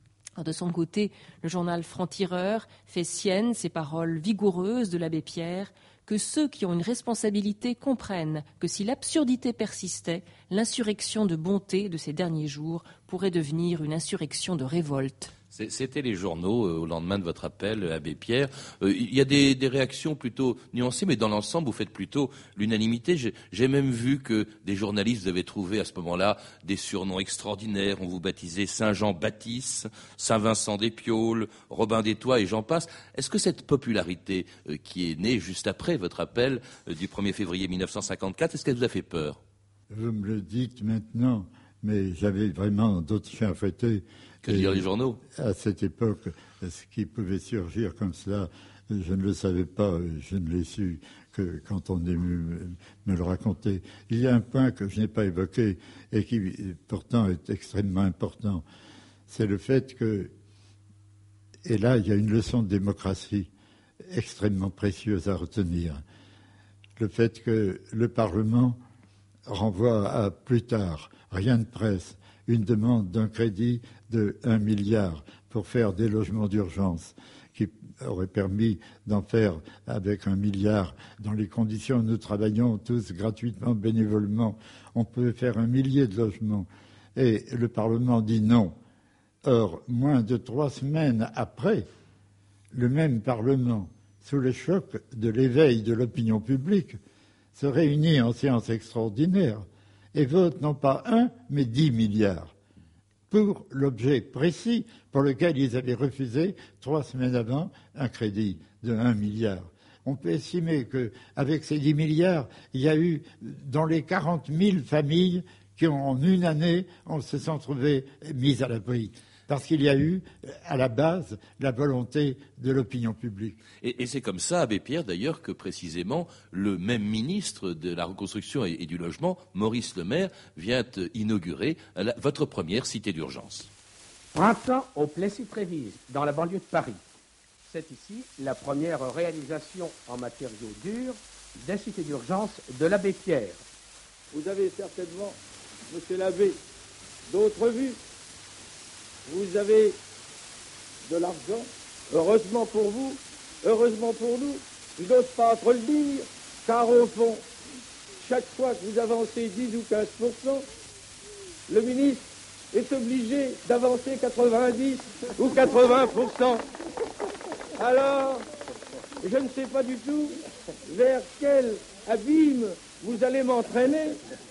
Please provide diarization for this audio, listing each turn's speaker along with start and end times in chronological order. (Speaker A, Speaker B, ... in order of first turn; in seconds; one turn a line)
Speaker A: 0.4-15.3
Speaker B: 15.5-39.4
Speaker C: 39.9-58.6
Speaker B: 44.4-45.2
Speaker C: 59.3-60.3
Speaker C: 61.6-63.5
Speaker C: 64.0-66.0
Speaker C: 67.0-68.8
Speaker C: 69.5-88.8
Speaker C: 89.4-91.9
Speaker C: 92.7-97.0
Speaker C: 97.5-102.5
Speaker C: 103.3-123.6
Speaker B: 123.8-133.7
Speaker D: 134.3-137.0
Speaker D: 137.6-143.6
Speaker E: 144.3-145.4
Speaker E: 145.9-146.6
Speaker E: 147.3-148.0
Speaker E: 149.2-150.0
Speaker E: 151.1-157.4
Speaker E: 158.2-160.7
Speaker E: 161.7-166.6
Speaker E: 167.8-168.4
Speaker E: 169.2-174.2